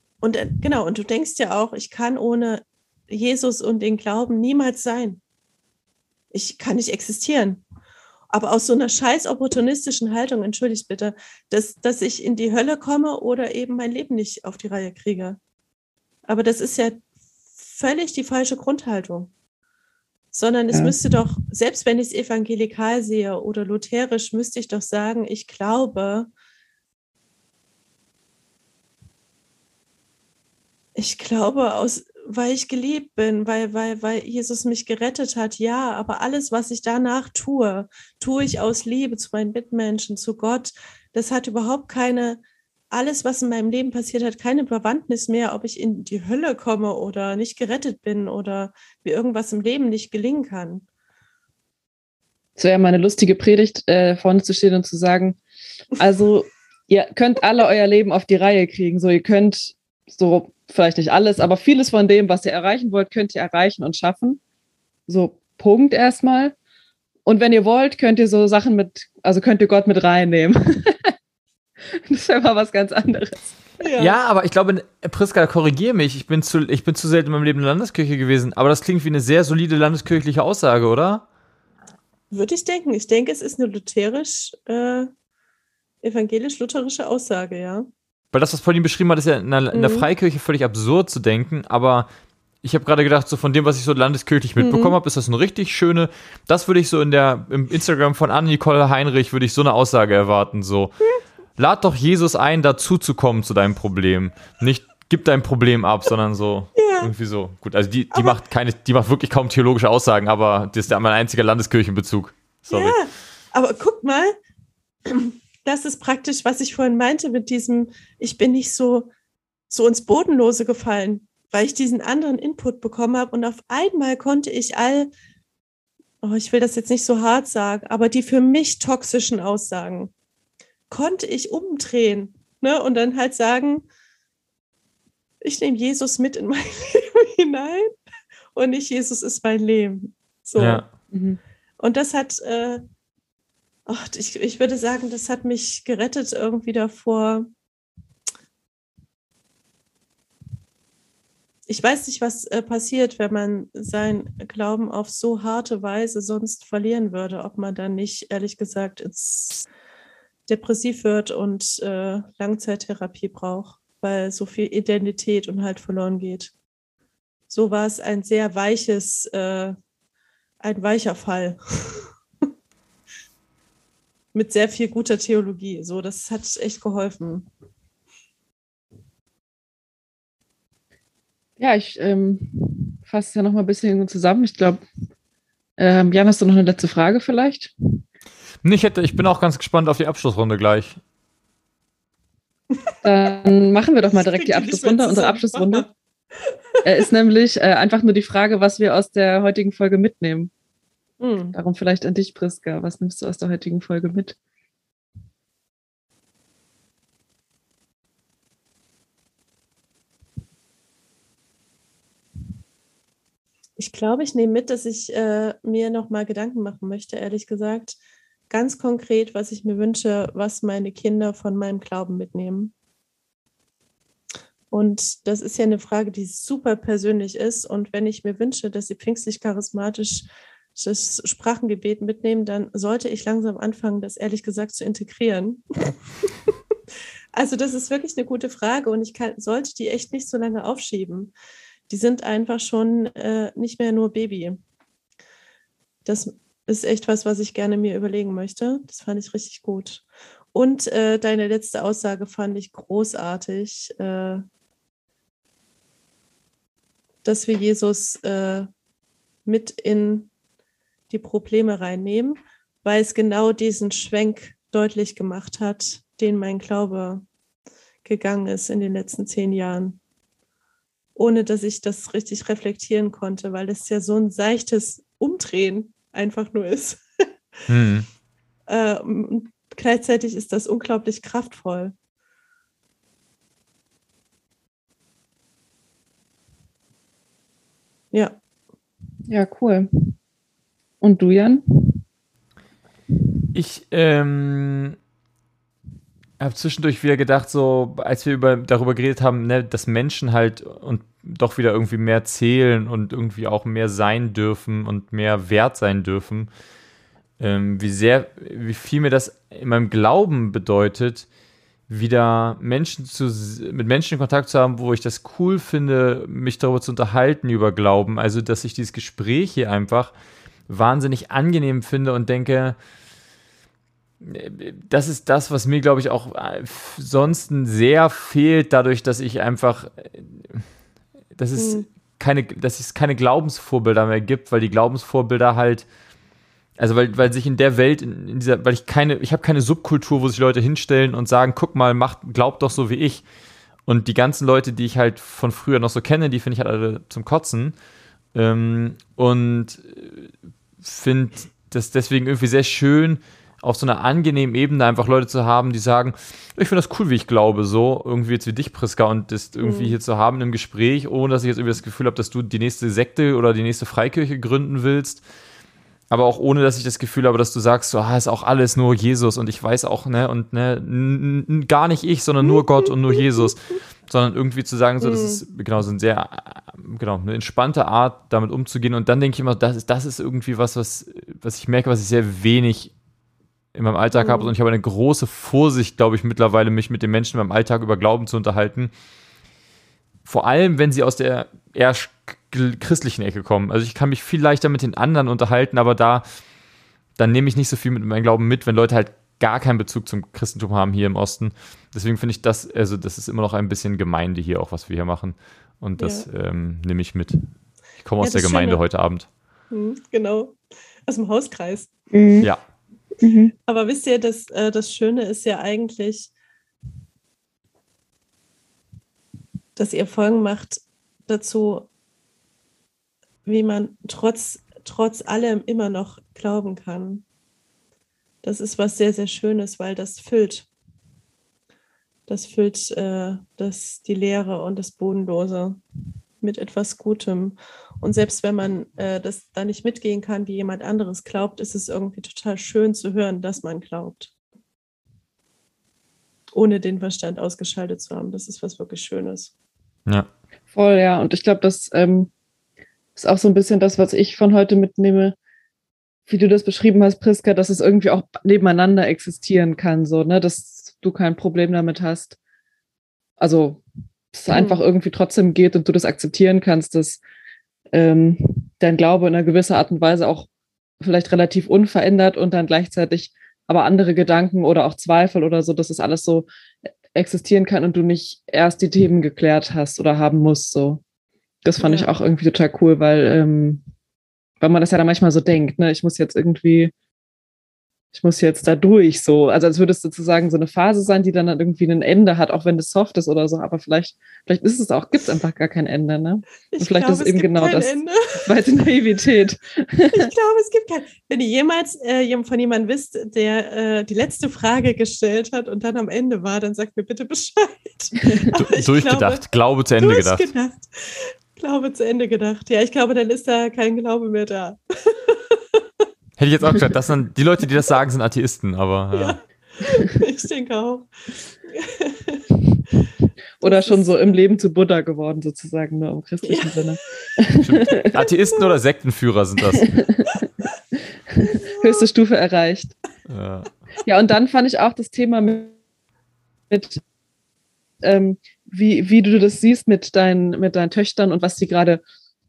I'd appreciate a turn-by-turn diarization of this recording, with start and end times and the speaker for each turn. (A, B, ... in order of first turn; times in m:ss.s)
0:00.2-0:05.2 A
0:06.3-0:07.6 A
0:08.3-0:15.4 A
0:16.3-0:17.0 A
0:17.6-0:19.3 A
0:20.3-0:26.3 A
0:20.7-0:21.0 B
0:31.0-0:50.9 A
0:52.6-0:55.4 B
0:56.0-1:04.4 B
1:05.1-1:06.6 B
1:07.3-1:11.1 B
1:11.9-1:13.6 B
1:13.8-1:14.2 A
1:14.0-1:21.2 C
1:22.3-1:25.1 A
1:26.0-1:27.9 A
1:28.3-1:32.1 C
1:29.7-1:30.1 A
1:32.6-1:41.0 C
1:34.6-1:35.0 A
1:41.6-1:53.0 C
1:46.8-1:47.1 A
1:48.1-1:48.4 A
1:52.7-1:54.4 A
1:55.1-1:59.1 A
1:59.7-2:05.1 A
2:06.2-2:10.1 A
2:10.9-2:13.8 A
2:15.4-2:17.9 A
2:18.6-2:20.9 A
2:20.6-2:20.9 C
2:21.1-2:21.4 B
2:21.8-2:22.8 A
2:23.9-2:27.5 A
2:31.7-2:39.7 A
2:40.5-2:46.5 A
2:47.5-2:49.8 A
2:50.6-2:52.1 A
2:54.3-2:57.5 A
3:01.6-3:04.8 B
3:05.8-3:07.7 B
3:08.6-3:11.0 C
3:13.0-3:15.9 B
3:14.4-3:15.9 A
3:16.8-3:20.5 B
3:21.2-3:21.6 A
3:21.5-3:24.4 B
3:33.8-3:38.0 A
3:38.5-3:42.7 A
3:44.7-3:55.6 A
3:57.3-4:01.3 A
4:01.9-4:04.6 A
4:06.0-4:14.4 A
4:17.2-4:18.7 A
4:19.5-4:20.3 A
4:21.1-4:27.2 A
4:28.0-4:30.0 A
4:31.2-4:37.0 A
4:37.7-4:38.1 C
4:38.7-4:41.9 A
4:48.1-4:48.4 A
4:49.3-4:50.2 B
4:51.0-4:52.0 B
4:53.6-4:55.0 C
4:56.4-5:06.5 C
5:07.4-5:11.3 C
5:11.9-5:20.1 C
5:20.7-5:22.8 C
5:24.2-5:30.6 C
5:31.4-5:35.9 C
5:31.6-5:31.9 A
5:36.8-5:43.3 C
5:43.9-5:47.8 C
5:48.3-5:50.3 C
5:50.8-6:05.2 C
5:59.6-6:00.0 A
6:06.1-6:22.9 C
6:15.0-6:15.4 A
6:23.7-6:28.9 C
6:24.1-6:24.5 A
6:30.3-6:36.3 C
6:37.2-6:47.4 C
6:46.0-6:46.3 A
6:48.0-6:49.3 C
6:48.2-6:48.8 A
6:49.7-6:52.0 A
6:52.1-6:52.5 B
6:53.2-6:53.5 B
6:53.7-6:56.3 A
6:59.8-7:01.9 A
7:03.4-7:07.2 A
7:08.4-7:10.7 A
7:12.3-7:15.8 A
7:16.4-7:24.3 A
7:26.5-7:29.5 A
7:30.7-7:32.3 B
7:33.2-7:35.4 B
7:36.3-7:42.4 B
7:43.4-7:47.2 B
7:44.5-7:44.8 A
7:47.9-7:50.5 B
7:51.0-7:56.5 B
7:57.1-8:01.0 B
8:01.6-8:03.8 B
8:01.8-8:02.1 A
8:04.6-8:06.9 B
8:08.1-8:20.3 B
8:16.7-8:18.5 A
8:20.1-8:29.5 A
8:28.5-8:30.5 C
8:30.0-8:35.6 A
8:36.4-8:39.4 C
8:39.1-8:41.1 A
8:41.6-8:42.5 A
8:43.6-8:48.1 B
8:43.6-8:44.4 A
8:46.4-8:46.8 A
8:47.6-8:49.9 C
8:49.9-8:50.4 B
8:51.3-8:53.0 B
8:53.3-8:53.7 C
8:54.0-8:55.8 B
8:56.7-8:57.0 B
8:58.0-9:02.0 B